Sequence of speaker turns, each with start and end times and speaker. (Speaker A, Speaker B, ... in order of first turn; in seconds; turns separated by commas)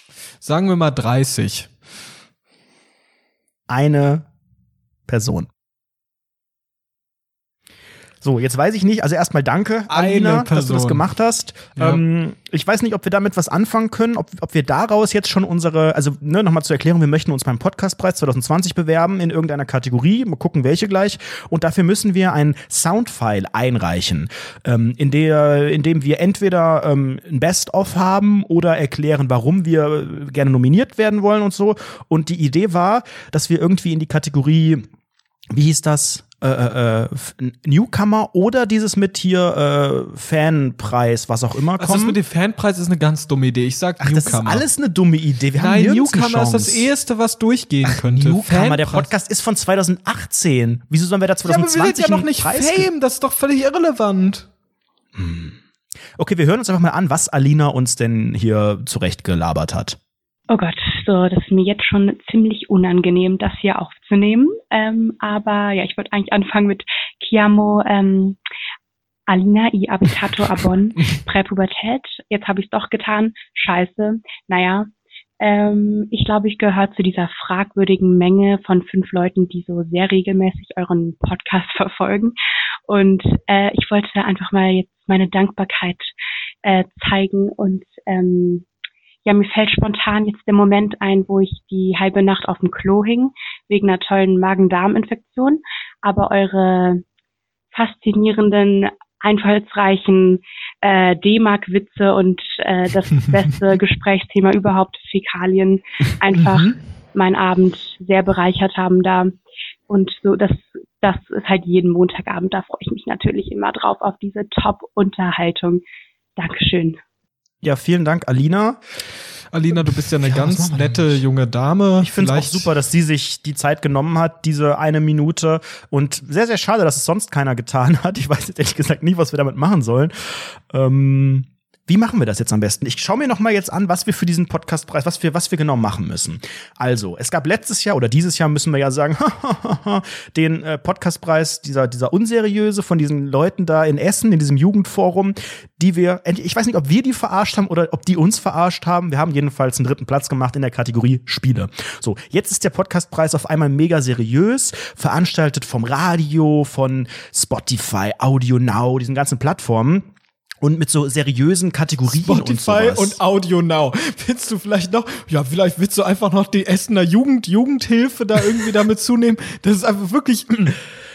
Speaker A: 0.4-1.7, Speaker B: 3.7-4.2, Speaker B: 5.1-5.5, Speaker B: 8.2-34.8, Speaker A: 9.9-11.0, Speaker B: 35.5-42.2, Speaker A: 41.8-44.6, Speaker B: 44.0-46.9, Speaker A: 45.6-49.1, Speaker B: 47.9-52.9, Speaker A: 51.4-54.5, Speaker B: 55.1-55.6, Speaker B: 56.2-60.0, Speaker C: 60.5-68.4, Speaker C: 69.3-74.9, Speaker C: 75.4-82.3, Speaker C: 82.9-86.1, Speaker C: 86.6-88.7, Speaker C: 89.2-97.0, Speaker C: 97.7-109.3, Speaker A: 106.3-106.8, Speaker C: 109.9-115.8, Speaker C: 116.4-117.0, Speaker B: 117.6-118.8, Speaker A: 119.5-122.7, Speaker B: 119.8-121.2, Speaker B: 122.0-160.1, Speaker B: 160.6-163.2, Speaker A: 162.1-170.8